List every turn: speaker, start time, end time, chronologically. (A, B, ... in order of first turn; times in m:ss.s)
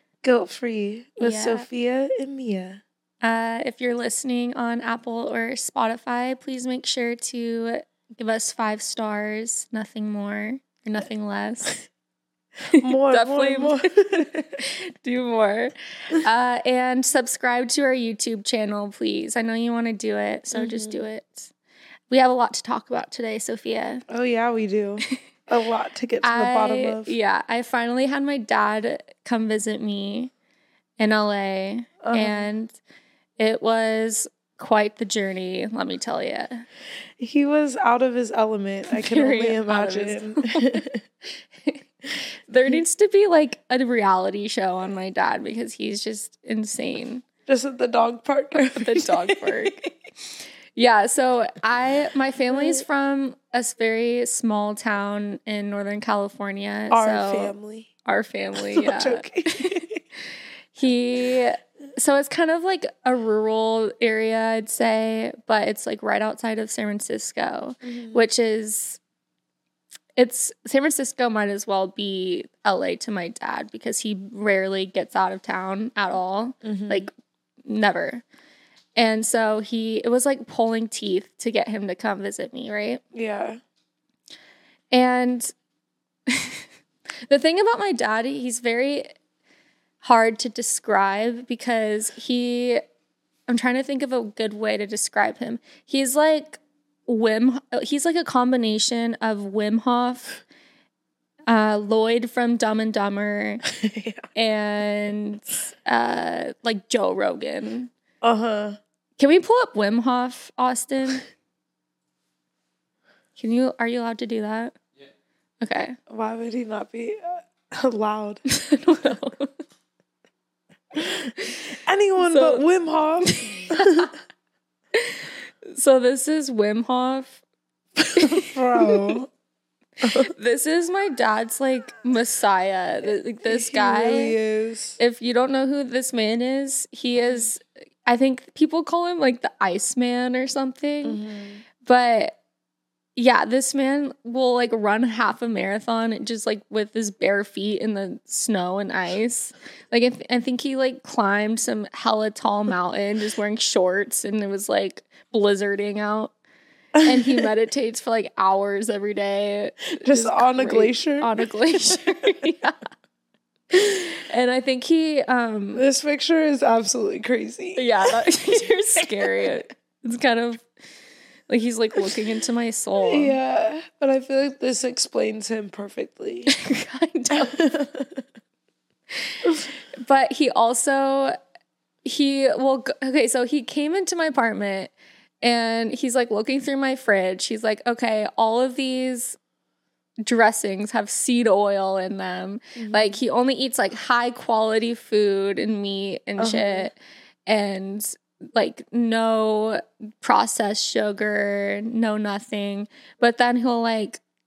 0:00.2-0:02.8 A
0:01.2-0:01.7 B
0:03.2-0:11.8 B
0:12.7-0:13.8 B
0:12.8-0:14.6 A
0:14.6-0:21.5 B
0:20.5-0:21.0 A
0:22.1-0:24.0 B
0:24.1-0:27.1 A
0:26.2-0:30.3 B
0:31.0-0:32.8 B
0:32.0-0:32.5 A
0:33.4-0:36.6 B
0:37.2-0:41.0 A
0:38.9-0:40.8 B
0:41.6-0:47.2 B
0:47.5-0:49.9 A
0:48.6-0:49.8 B
0:50.8-0:57.5 B
0:52.5-0:52.8 A
0:56.9-0:57.9 A
0:58.0-0:59.8 B
0:58.6-1:00.0 A
1:00.7-1:09.0 B
1:07.8-1:08.2 A
1:10.2-1:17.1 B
1:16.6-1:17.1 A
1:17.6-1:18.2 B
1:19.0-1:23.0 B
1:23.1-1:23.6 A
1:24.9-1:25.5 B
1:26.3-1:26.6 B
1:27.3-1:29.1 B
1:30.0-1:32.8 B
1:33.5-1:40.4 B
1:41.5-1:43.6 B
1:43.7-1:44.2 A
1:44.3-1:47.9 B
1:48.2-1:48.8 A
1:49.2-1:51.2 B
1:53.4-1:54.8 B
1:55.6-1:56.0 B
1:56.1-1:58.4 A
1:58.5-1:59.5 B
2:00.9-2:01.3 A
2:01.8-2:04.1 A
2:02.2-2:02.6 B
2:03.2-2:04.1 B
2:05.0-2:07.4 B
2:08.0-2:09.3 A
2:08.1-2:09.1 B
2:10.0-2:10.3 A
2:10.0-2:14.4 B
2:13.4-2:15.0 A
2:15.0-2:21.2 B
2:17.2-2:17.5 A
2:21.0-2:21.6 A
2:21.8-2:22.4 B
2:23.2-2:36.3 B
2:36.9-2:37.4 A
2:37.0-2:42.9 B
2:40.0-2:42.2 A
2:43.7-2:45.8 B
2:45.7-2:48.1 A
2:47.8-2:50.7 B
2:49.2-2:49.6 A
2:51.5-2:53.4 B
2:53.0-2:56.5 A
2:56.5-2:57.6 B
2:57.3-2:58.2 A
3:00.0-3:01.4 B
3:02.0-3:09.4 B
3:10.2-3:17.0 B
3:12.8-3:13.2 A
3:16.4-3:16.9 A
3:17.5-3:24.2 B